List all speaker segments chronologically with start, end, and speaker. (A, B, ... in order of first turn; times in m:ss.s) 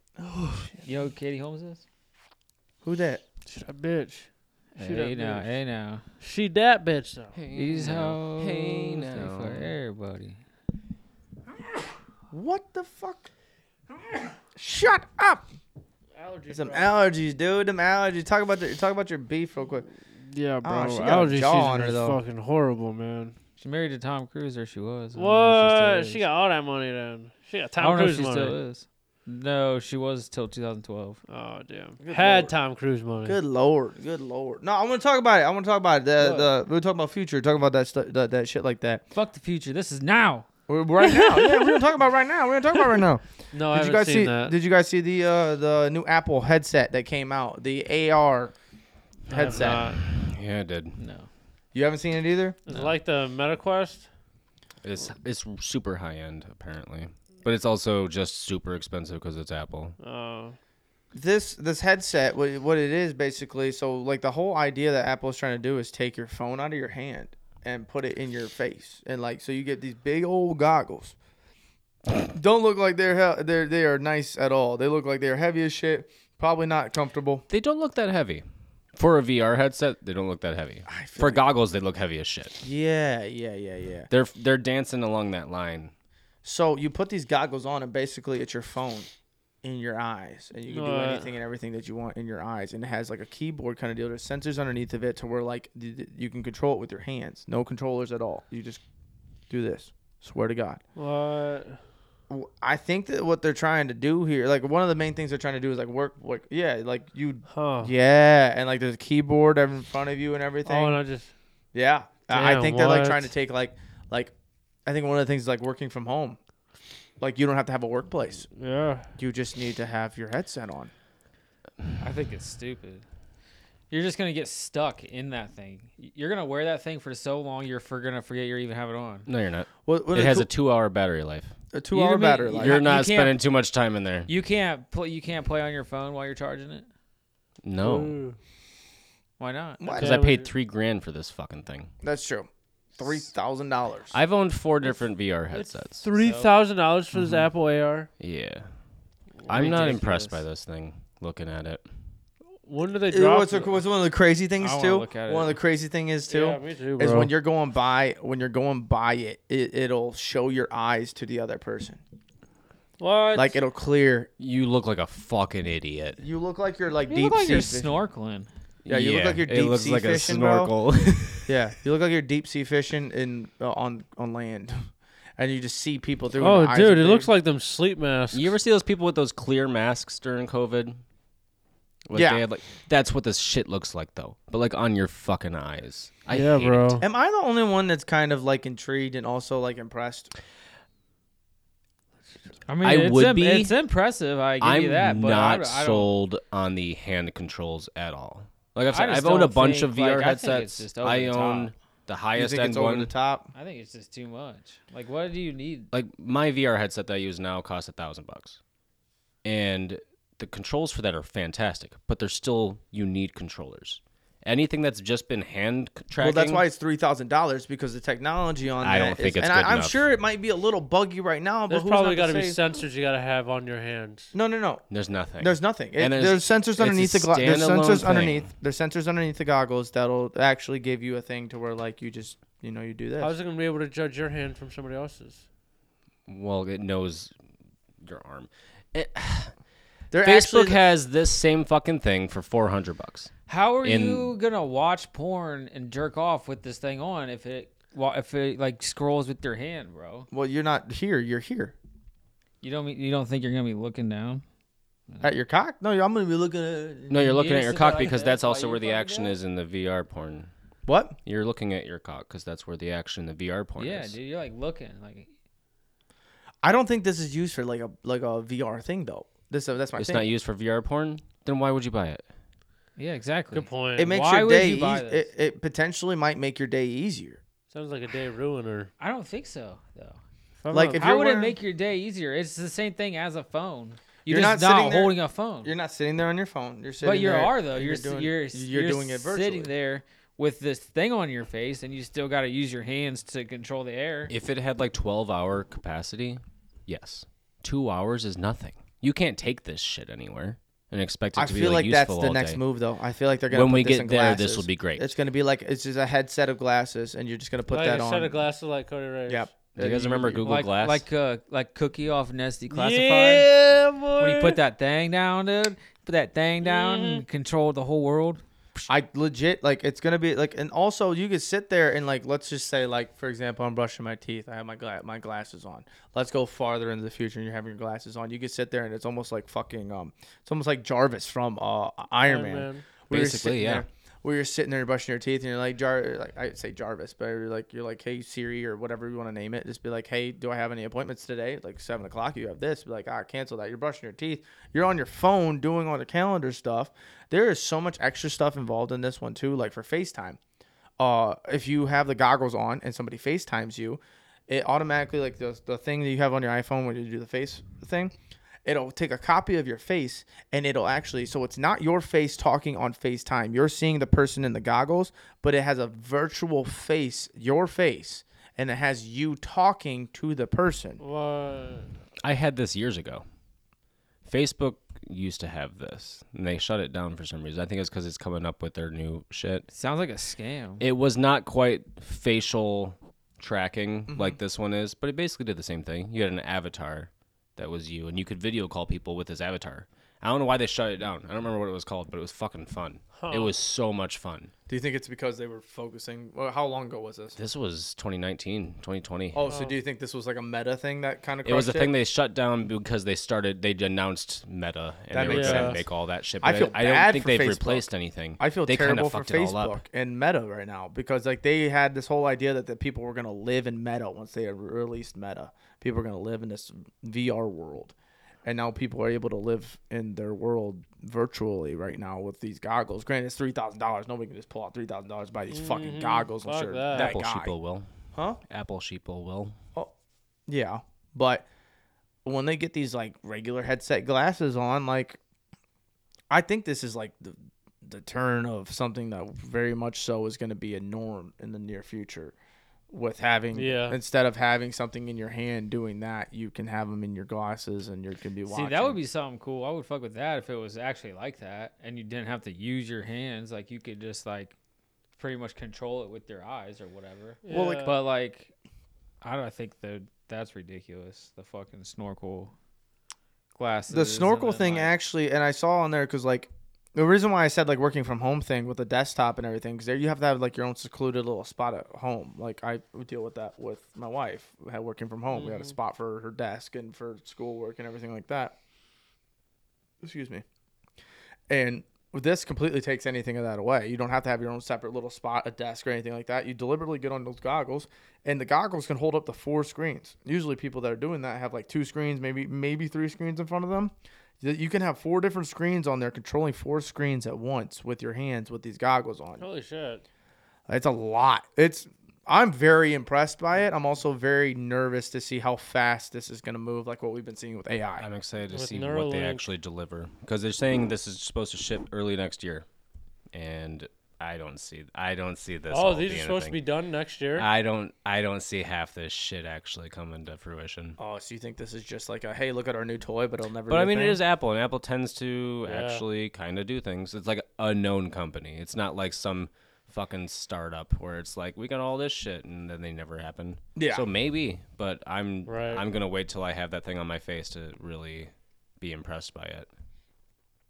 0:00.2-0:00.7 A
0:00.8-0:01.8 B
0:02.8-0:03.2 A
0:03.5-0:05.5 C
0:04.8-0:06.0 B
0:06.2-0:07.4 C
0:07.3-0:09.7 D
0:07.5-0:10.4 B
0:12.3-0:13.3 A
0:14.6-0:15.4 A
0:16.2-0:17.0 C
0:16.5-0:19.9 A
0:20.3-0:23.4 C
0:20.6-0:22.2 A
0:23.6-0:26.2 B
0:25.2-0:28.6 C
0:27.8-0:31.2 B
0:31.3-0:33.4 C
0:32.0-0:32.5 A
0:33.2-0:39.0 A
0:36.2-0:36.5 B
0:39.1-0:40.5 B
0:40.7-0:48.6 A
0:43.5-0:44.6 C
0:49.3-0:49.9 A
0:49.3-0:50.0 C
0:49.4-0:51.0 D
0:51.0-0:51.3 B
0:51.7-0:52.6 A
0:52.7-0:54.1 C
0:54.8-1:00.0 D
1:00.0-1:00.6 C
1:01.1-1:11.2 A
1:12.3-1:17.4 A
1:17.5-1:22.6 D
1:20.9-1:21.5 A
1:22.6-1:24.1 A
1:24.1-1:25.9 D
1:26.4-1:29.1 A
1:29.6-1:38.8 A
1:30.7-1:31.3 C
1:39.5-1:40.8 A
1:41.0-1:41.8 C
1:42.3-1:51.0 A
1:47.5-1:47.9 C
1:50.6-1:51.3 C
1:51.7-1:54.3 A
1:52.3-1:53.3 C
1:54.9-1:56.4 A
1:57.2-1:58.5 A
1:58.6-1:59.1 C
1:59.2-2:00.9 A
2:02.0-2:03.0 B
2:03.9-2:09.3 B
2:09.3-2:11.5 D
2:09.9-2:10.5 A
2:11.7-2:12.8 A
2:11.9-2:13.4 B
2:12.5-2:14.3 D
2:14.3-2:16.9 B
2:17.6-2:18.2 D
2:17.8-2:18.4 C
2:19.4-2:19.9 B
2:19.8-2:20.3 A
2:20.0-2:20.5 C
2:20.0-2:21.9 D
2:22.0-2:24.2 A
2:24.1-2:26.1 D
2:25.5-2:28.1 C
2:26.1-2:26.5 B
2:27.2-2:27.4 A
2:28.2-2:28.7 D
2:29.5-2:31.8 D
2:29.5-2:30.4 B
2:32.6-2:33.8 C
2:33.1-2:42.0 A
2:34.6-2:35.6 B
2:36.3-2:37.3 C
2:43.0-2:43.6 C
2:43.4-2:44.3 A
2:44.4-2:46.2 D
2:46.2-2:48.0 A
2:47.1-2:48.5 B
2:48.9-2:51.5 D
2:48.9-2:50.7 A
2:51.4-2:57.3 A
2:56.4-2:58.6 C
2:58.3-3:01.0 D
3:02.1-3:07.0 D
3:02.1-3:02.4 A
3:06.3-3:07.0 C
3:07.0-3:10.3 A
3:12.7-3:16.1 B
3:12.8-3:13.7 D
3:14.6-3:23.1 D
3:18.9-3:21.7 B
3:22.4-3:23.5 A
3:23.5-3:25.9 B
3:25.9-3:28.6 D
3:29.4-3:36.6 D
3:36.2-3:42.6 A
3:38.8-3:40.0 D
3:41.7-3:44.3 C
3:44.3-3:44.8 A
3:44.9-3:48.5 D
3:45.4-3:53.3 A
3:53.2-3:55.4 C
3:56.3-3:57.3 D
3:58.0-3:59.5 D
4:00.1-4:00.8 A
4:00.2-4:03.3 D
4:03.5-4:10.3 B
4:03.8-4:04.3 D
4:10.3-4:11.8 A
4:12.6-4:14.4 B
4:15.2-4:17.3 A
4:17.1-4:20.5 D
4:17.2-4:19.4 B
4:20.9-4:21.2 A
4:21.2-4:24.2 D
4:23.8-4:25.3 B
4:26.6-4:30.3 A
4:30.0-4:32.2 D
4:33.0-4:35.3 B
4:33.5-4:34.1 C
4:34.0-4:37.4 A
4:37.7-4:38.9 C
4:39.0-4:40.2 B
4:40.6-4:41.0 C
4:40.7-4:41.6 A
4:41.0-4:45.7 B
4:44.3-4:49.7 A
4:47.0-4:54.3 B
4:54.3-5:02.6 D
5:01.4-5:08.5 A
5:03.5-5:05.1 D
5:07.7-5:09.5 C
5:09.3-5:10.5 A
5:09.8-5:11.0 D
5:10.4-5:13.5 B
5:12.7-5:14.6 C
5:14.2-5:18.4 B
5:16.6-5:17.2 C
5:18.9-5:50.4 A
5:32.3-5:32.9 C
5:33.1-5:33.9 D
5:51.0-5:58.1 A
5:58.6-6:11.0 A
6:11.0-6:11.9 C
6:12.2-6:13.2 D
6:14.2-6:19.7 D
6:19.7-6:20.8 B
6:20.8-6:34.5 D
6:24.1-6:24.4 A
6:33.2-6:33.5 C
6:34.7-6:37.4 A
6:37.4-6:39.4 D
6:39.3-6:41.9 A
6:39.4-6:39.8 C
6:41.4-6:49.8 D
6:45.1-6:45.8 A
6:45.3-6:45.8 C
6:46.4-6:57.9 A
6:58.4-7:07.5 A
7:05.5-7:07.2 C
7:06.9-7:07.9 D
7:08.1-7:08.4 A
7:08.5-7:09.6 D
7:10.5-7:11.4 A
7:12.2-7:15.2 A
7:16.3-7:22.4 A
7:22.9-7:29.0 A
7:23.5-7:24.0 C
7:28.5-7:34.5 B
7:35.2-7:38.5 B
7:37.4-7:38.0 C
7:37.5-7:37.9 A
7:39.2-7:42.5 B
7:43.6-7:44.9 B
7:43.9-7:58.6 A
7:55.3-7:55.8 C
8:00.0-8:00.4 A
8:01.5-8:19.4 A
8:19.4-8:20.0 C
8:20.7-8:28.1 A
8:28.0-8:32.7 D
8:28.5-8:29.4 C
8:33.3-8:36.6 D
8:35.7-8:37.5 C
8:37.4-8:41.0 D
8:41.0-8:44.2 A
8:43.7-8:59.7 D
8:45.7-8:46.0 C
8:53.8-8:54.0 A
8:55.5-8:55.8 C